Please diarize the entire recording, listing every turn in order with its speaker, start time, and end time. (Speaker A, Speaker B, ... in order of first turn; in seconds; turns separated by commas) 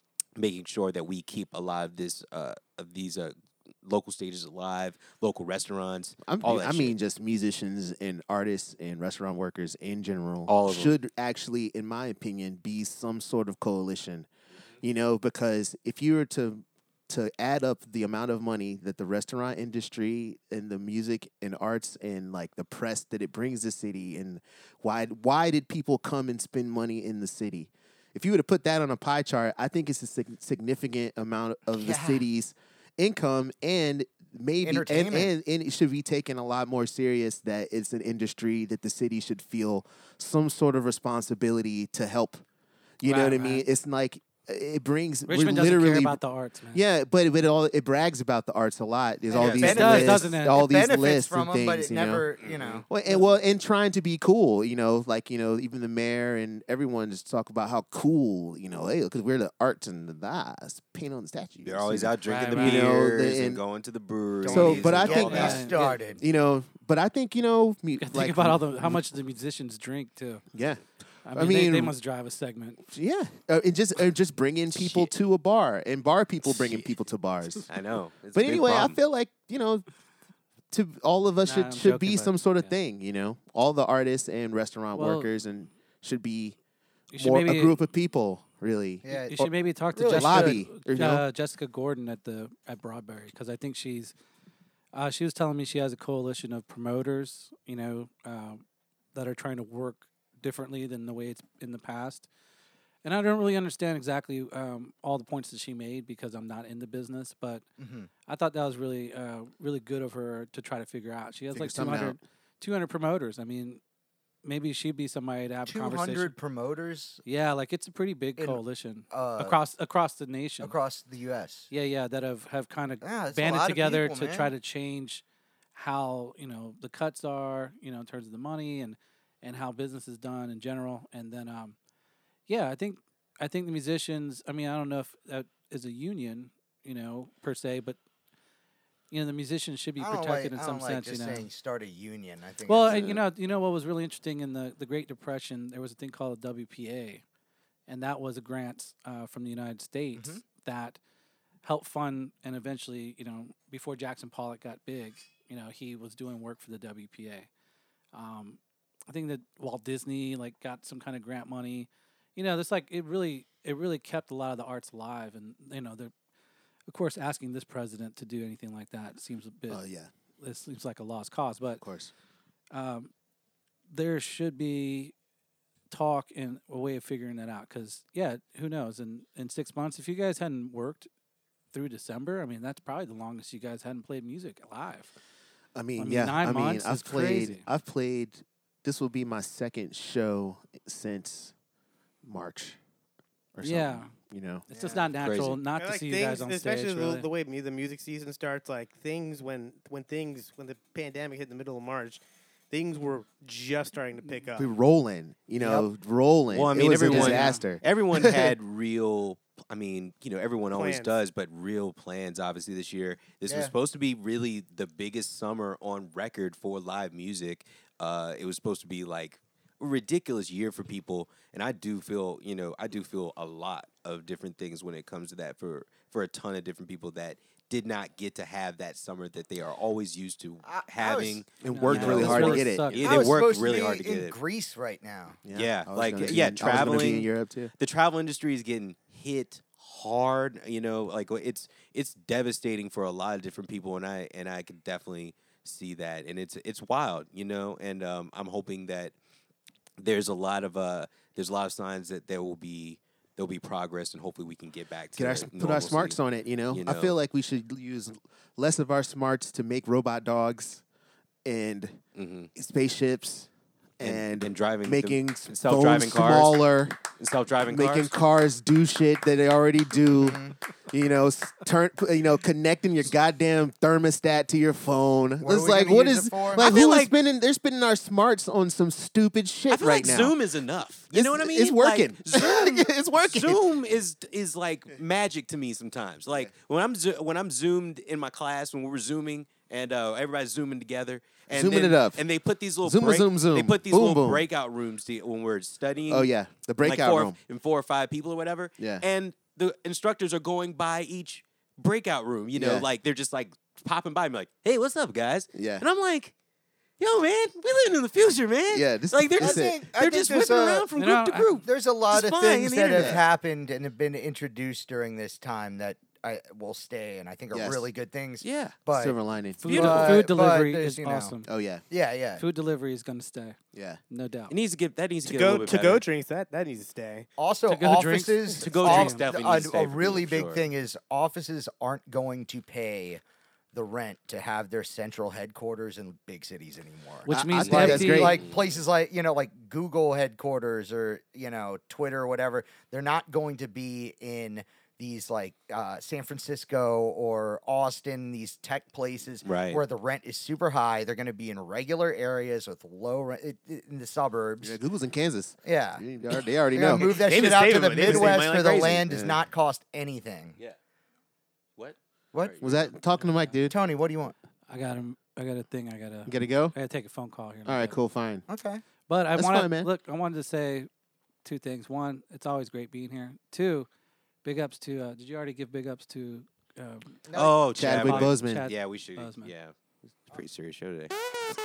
Speaker A: 0.4-6.9, Speaker B: 6.2-14.3, Speaker A: 10.5-10.9, Speaker B: 14.8-42.4, Speaker C: 31.8-32.2, Speaker C: 34.6-35.3, Speaker B: 43.0-46.2, Speaker D: 43.0-43.6, Speaker D: 45.3-46.8, Speaker B: 46.7-52.2, Speaker C: 49.3-52.9, Speaker D: 49.6-50.6, Speaker A: 52.4-52.8, Speaker B: 52.9-63.6, Speaker A: 61.6-65.7, Speaker D: 62.2-62.9, Speaker C: 64.4-66.2, Speaker B: 64.5-65.6, Speaker D: 65.0-66.0, Speaker B: 66.2-69.0, Speaker D: 68.0-70.4, Speaker B: 70.5-70.8, Speaker D: 71.2-72.8, Speaker B: 71.3-71.9, Speaker B: 72.9-77.7, Speaker A: 77.7-79.0, Speaker B: 78.3-79.8, Speaker B: 80.7-86.6, Speaker D: 81.4-82.7, Speaker D: 84.9-85.3, Speaker D: 87.1-87.8, Speaker B: 87.2-89.5, Speaker C: 89.0-90.6, Speaker D: 89.1-94.1, Speaker B: 90.1-91.2, Speaker D: 94.9-98.6, Speaker D: 99.1-102.3, Speaker D: 103.0-107.6, Speaker C: 107.8-108.1, Speaker D: 108.3-113.8, Speaker B: 111.5-112.2, Speaker D: 114.4-116.3, Speaker C: 115.7-117.2, Speaker D: 117.2-120.7, Speaker C: 118.4-119.5, Speaker C: 120.6-121.7, Speaker D: 121.7-125.2, Speaker C: 123.0-124.5, Speaker D: 125.7-131.7, Speaker D: 132.5-138.0, Speaker D: 139.1-141.5, Speaker C: 140.0-143.2, Speaker D: 142.7-147.2, Speaker D: 147.9-151.0, Speaker C: 150.1-150.4, Speaker D: 151.6-157.5, Speaker D: 158.1-166.1, Speaker D: 166.9-169.8, Speaker B: 169.7-170.1, Speaker D: 170.4-171.8, Speaker B: 171.8-172.1, Speaker D: 172.7-173.1, Speaker D: 173.9-175.1, Speaker D: 175.9-181.1, Speaker D: 181.7-185.1, Speaker B: 185.7-191.5, Speaker D: 186.0-187.6, Speaker B: 192.2-192.8, Speaker B: 193.5-194.7, Speaker D: 193.6-194.1, Speaker D: 194.7-197.3, Speaker C: 194.7-195.1, Speaker A: 195.2-195.6, Speaker E: 195.8-204.7, Speaker B: 204.6-208.5, Speaker A: 206.5-234.3, Speaker D: 207.1-207.6, Speaker E: 210.7-211.1, Speaker C: 213.5-213.7, Speaker C: 230.6-231.4, Speaker B: 231.6-232.9, Speaker D: 231.7-233.4, Speaker C: 232.9-235.4, Speaker B: 235.4-237.7, Speaker A: 235.5-249.1, Speaker A: 250.0-256.2, Speaker B: 255.2-260.8, Speaker A: 256.7-257.1, Speaker B: 261.4-262.0, Speaker A: 262.1-262.5, Speaker B: 262.5-267.0, Speaker A: 264.0-266.6, Speaker A: 267.2-268.1, Speaker B: 267.7-270.4, Speaker C: 270.2-270.5, Speaker B: 270.9-280.4, Speaker C: 275.4-276.7, Speaker A: 276.6-277.1, Speaker A: 279.7-296.3, Speaker B: 281.1-283.6, Speaker B: 291.5-292.2, Speaker B: 292.8-294.4, Speaker B: 296.1-297.4, Speaker A: 296.8-306.3, Speaker B: 298.8-299.0, Speaker B: 302.5-302.9, Speaker B: 305.5-305.8, Speaker A: 307.0-313.2, Speaker B: 308.7-309.8, Speaker C: 309.4-310.8, Speaker D: 310.9-311.6, Speaker C: 311.6-319.1, Speaker B: 312.9-313.2, Speaker B: 317.5-317.8, Speaker A: 318.4-318.8, Speaker B: 318.9-320.1, Speaker D: 319.6-321.5, Speaker A: 319.6-320.1, Speaker C: 319.7-321.4, Speaker B: 321.4-321.8, Speaker C: 321.9-322.4, Speaker D: 322.4-323.6, Speaker B: 323.7-324.0, Speaker D: 324.1-324.5, Speaker A: 324.5-326.0, Speaker E: 325.2-327.3, Speaker C: 327.4-333.2, Speaker D: 327.7-329.2, Speaker A: 328.6-330.6, Speaker C: 333.7-354.8, Speaker D: 337.2-338.4, Speaker B: 337.3-338.4, Speaker A: 337.6-338.7, Speaker A: 349.4-349.8, Speaker B: 354.6-357.1, Speaker C: 355.6-356.0, Speaker C: 356.7-360.6, Speaker A: 357.0-359.1, Speaker B: 358.1-358.3, Speaker B: 359.1-359.4, Speaker A: 361.8-362.9, Speaker B: 362.6-363.7, Speaker D: 363.2-363.5, Speaker C: 363.7-364.3, Speaker D: 364.7-367.9, Speaker B: 366.2-366.7, Speaker B: 367.6-368.4, Speaker C: 368.5-368.8, Speaker D: 369.1-370.9, Speaker B: 369.3-369.9, Speaker D: 371.4-373.9, Speaker D: 374.4-377.2, Speaker C: 377.3-377.6, Speaker A: 377.3-381.1, Speaker B: 377.8-378.7, Speaker D: 377.9-379.5